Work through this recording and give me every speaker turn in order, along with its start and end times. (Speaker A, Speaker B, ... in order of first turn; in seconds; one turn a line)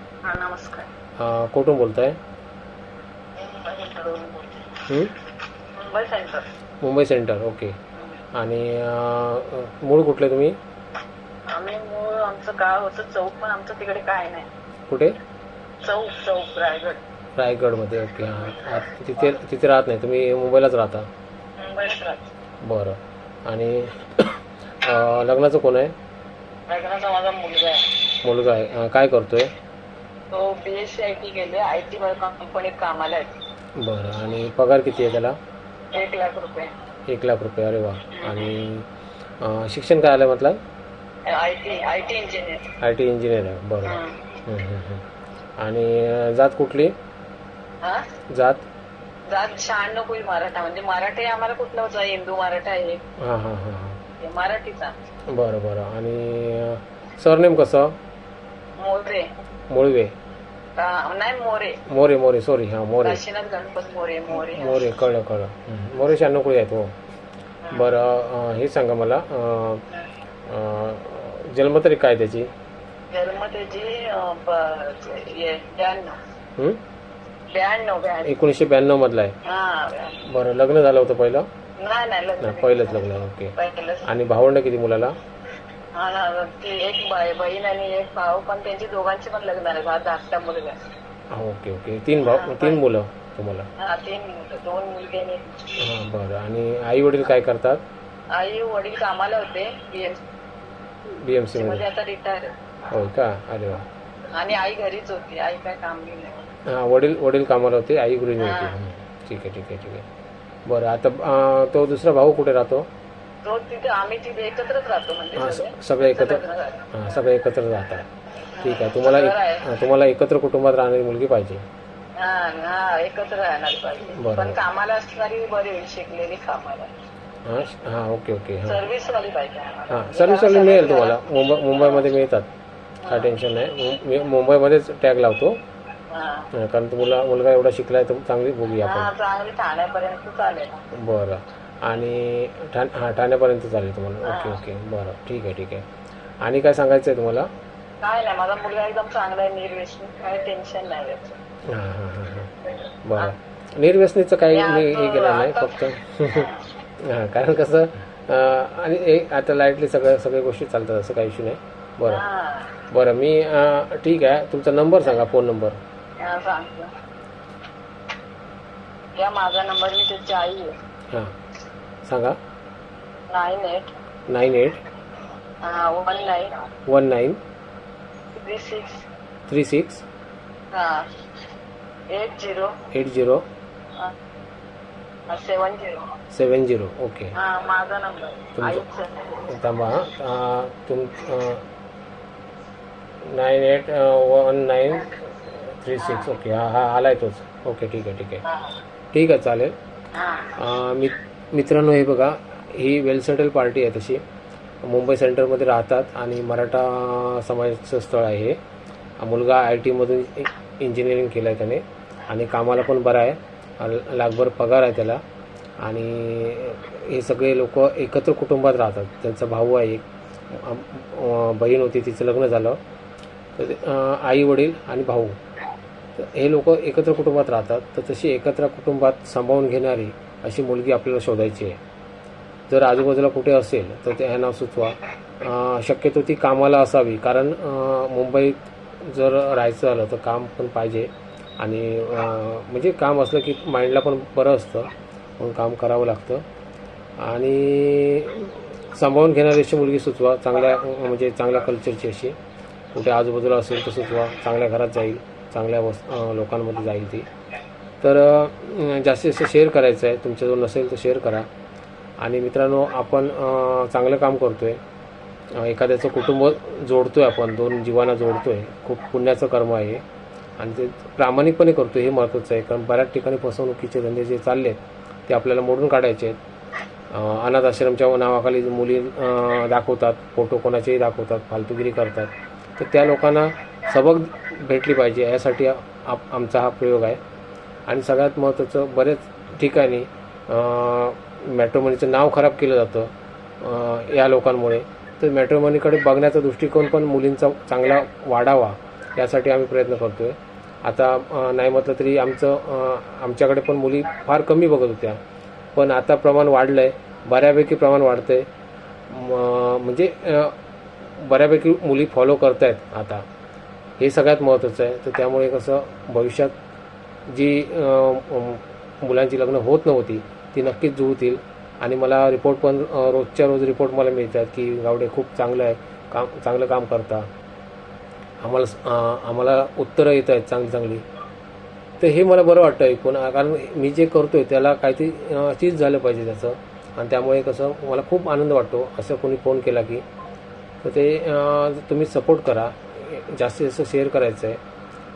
Speaker A: 0.2-0.9
Speaker B: 1.2-2.2
Speaker A: 3.4-4.8
Speaker A: 5.8-6.5
Speaker B: 6.8-7.7
Speaker B: 8.4-10.5
Speaker A: 11.5-14.5
Speaker B: 14.9-15.1
Speaker A: 15.8-17.0
Speaker B: 17.4-21.1
Speaker A: 21.6-22.3
Speaker B: 22.6-25.9
Speaker A: 26.7-27.9
Speaker B: 28.2-29.5
Speaker A: 30.3-33.4
Speaker B: 33.8-35.4
Speaker A: 35.9-36.7
Speaker B: 37.1-38.9
Speaker A: 38.1-38.5
Speaker B: 39.4-40.6
Speaker A: 41.3-42.7
Speaker B: 42.8-45.0
Speaker A: 43.8-44.4
Speaker B: 45.6-46.9
Speaker B: 48.4-48.7
Speaker A: 49.3-53.0
Speaker B: 53.2-54.0
Speaker A: 54.2-55.0
Speaker B: 55.3-58.0
Speaker A: 58.8-59.3
Speaker B: 59.7-60.1
Speaker A: 60.8-61.8
Speaker B: 61.9-63.2
Speaker A: 63.0-64.8
Speaker B: 64.3-66.9
Speaker B: 67.7-69.8
Speaker B: 70.5-72.5
Speaker A: 73.1-76.2
Speaker A: 77.5-78.3
Speaker B: 78.2-79.4
Speaker A: 79.5-80.2
Speaker B: 80.2-81.5
Speaker A: 81.8-84.1
Speaker B: 82.4-85.2
Speaker A: 86.0-90.7
Speaker B: 91.3-93.7
Speaker A: 92.2-92.8
Speaker A: 93.8-95.8
Speaker B: 95.8-97.8
Speaker A: 98.3-100.2
Speaker B: 101.1-101.8
Speaker A: 101.5-102.5
Speaker B: 102.9-103.8
Speaker A: 104.3-106.5
Speaker B: 106.7-110.0
Speaker A: 108.4-108.8
Speaker B: 110.7-112.9
Speaker A: 113.4-116.9
Speaker B: 115.4-118.0
Speaker A: 118.6-119.7
Speaker B: 118.6-121.6
Speaker A: 122.2-126.9
Speaker B: 124.2-124.6
Speaker B: 127.5-128.8
Speaker A: 128.7-131.2
Speaker B: 129.9-132.5
Speaker A: 131.8-132.1
Speaker A: 133.1-133.3
Speaker B: 133.1-135.6
Speaker A: 136.1-136.5
Speaker B: 136.6-139.1
Speaker A: 138.8-140.8
Speaker B: 140.9-145.8
Speaker A: 144.2-144.6
Speaker B: 146.4-147.5
Speaker A: 148.0-151.4
Speaker B: 151.7-162.2
Speaker A: 154.5-156.6
Speaker A: 162.1-162.8
Speaker B: 162.9-165.8
Speaker A: 166.2-166.9
Speaker A: 169.2-170.7
Speaker B: 172.1-172.4
Speaker A: 173.3-173.9
Speaker B: 174.3-174.8
Speaker A: 175.6-176.6
Speaker B: 176.9-177.4
Speaker A: 178.3-179.1
Speaker B: 179.5-180.1
Speaker A: 180.7-181.1
Speaker A: 182.1-182.8
Speaker B: 182.9-183.4
Speaker A: 185.3-186.1
Speaker B: 186.3-187.3
Speaker A: 187.4-189.5
Speaker B: 188.6-188.8
Speaker B: 189.4-191.6
Speaker B: 193.2-198.4
Speaker A: 196.0-196.3
Speaker A: 198.5-198.8
Speaker B: 199.1-199.7
Speaker A: 200.2-200.6
Speaker B: 200.6-204.2
Speaker B: 204.8-208.6
Speaker B: 209.2-215.2
Speaker B: 215.8-222.8
Speaker B: 223.6-225.4
Speaker B: 226.2-231.8
Speaker B: 232.7-246.4
Speaker B: 247.2-252.4
Speaker B: 252.9-257.3
Speaker B: 258.0-261.5
Speaker B: 262.2-264.8
Speaker B: 265.6-270.0
Speaker B: 270.6-276.4
Speaker B: 277.1-287.2
Speaker B: 287.9-293.1
Speaker B: 293.6-305.2
Speaker B: 305.8-308.5
Speaker B: 309.1-310.6
Speaker B: 311.1-313.2
Speaker B: 314.0-316.5
Speaker B: 317.3-327.3
Speaker B: 328.4-331.0
Speaker B: 332.0-340.0
Speaker B: 340.8-344.6